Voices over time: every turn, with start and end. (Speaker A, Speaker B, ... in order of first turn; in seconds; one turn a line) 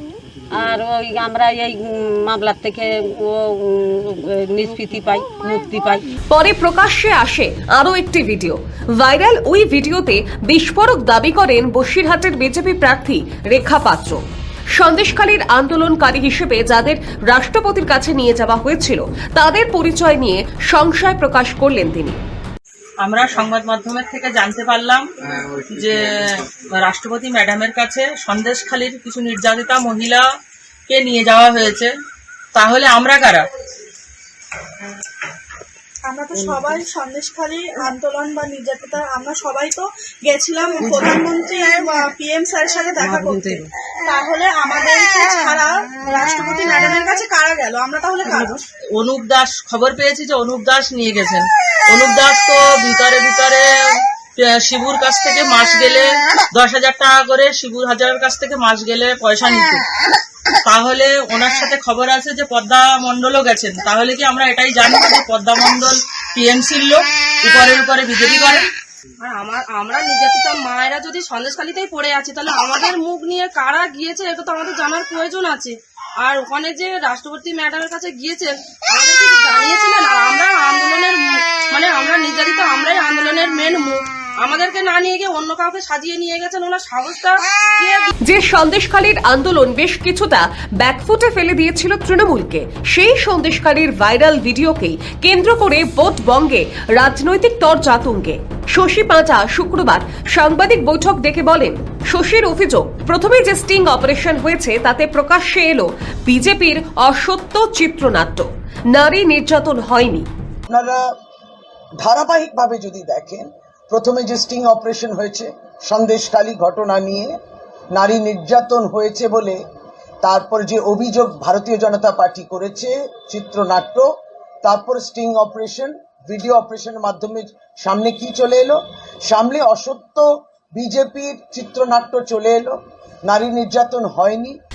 Speaker A: 0.6-6.1
Speaker B: 6.3-14.2
Speaker B: 14.8-22.2
Speaker C: 23.0-30.3
Speaker C: 30.9-31.9
Speaker C: 32.5-33.5
Speaker D: 36.1-48.6
Speaker C: 49.0-59.8
Speaker C: 60.6-68.7
Speaker E: 69.2-88.1
Speaker B: 88.2-110.3
Speaker F: 110.7-111.0
Speaker F: 112.0-117.3
Speaker F: 117.9-119.6
Speaker F: 120.2-124.1
Speaker F: 124.6-134.6